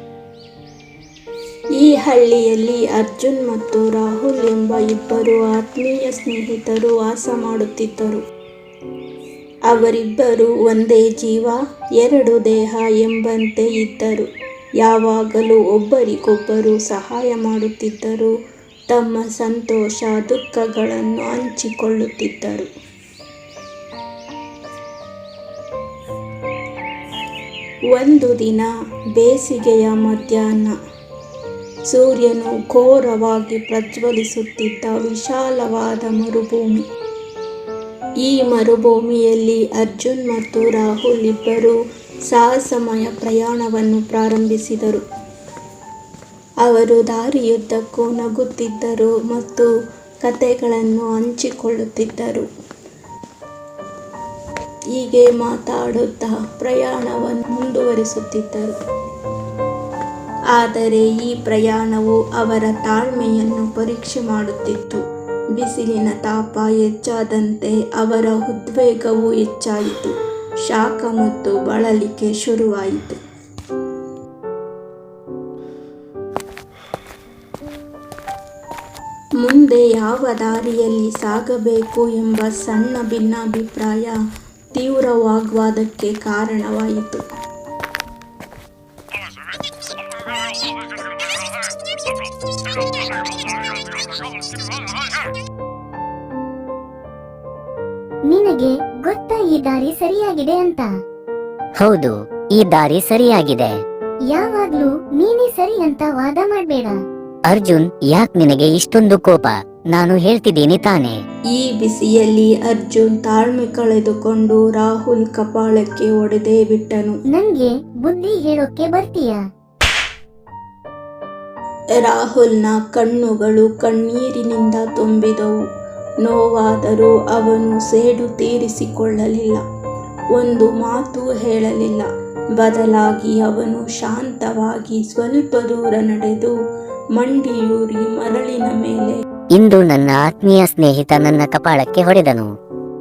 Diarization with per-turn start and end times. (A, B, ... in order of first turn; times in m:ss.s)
0:01.8-0:08.2 A
0:09.7-0:14.3 A
0:14.8-0:18.3 A
0:18.9-0:22.7 A
0:27.9-0:30.7 A
0:31.9-0:36.8 A
0:38.2-0:41.8 A
0:42.3-0:45.0 A
0:46.6-0:49.7 A
0:50.2-0:52.5 A
0:55.0-0:58.7 A
1:00.5-1:05.0 A
1:05.6-1:10.1 A
1:10.7-1:13.2 A
1:19.4-1:24.2 A
1:24.7-1:27.2 A
1:38.3-1:40.9 B
1:41.8-1:43.7 C
1:44.3-1:47.0 B
1:47.5-1:51.2 C
1:51.5-1:57.1 A
1:57.3-1:59.4 B
2:02.0-2:05.5 A
2:06.2-2:09.6 A
2:10.3-2:12.1 A
2:12.6-2:16.5 A
2:17.2-2:19.2 A
2:19.5-2:22.5 C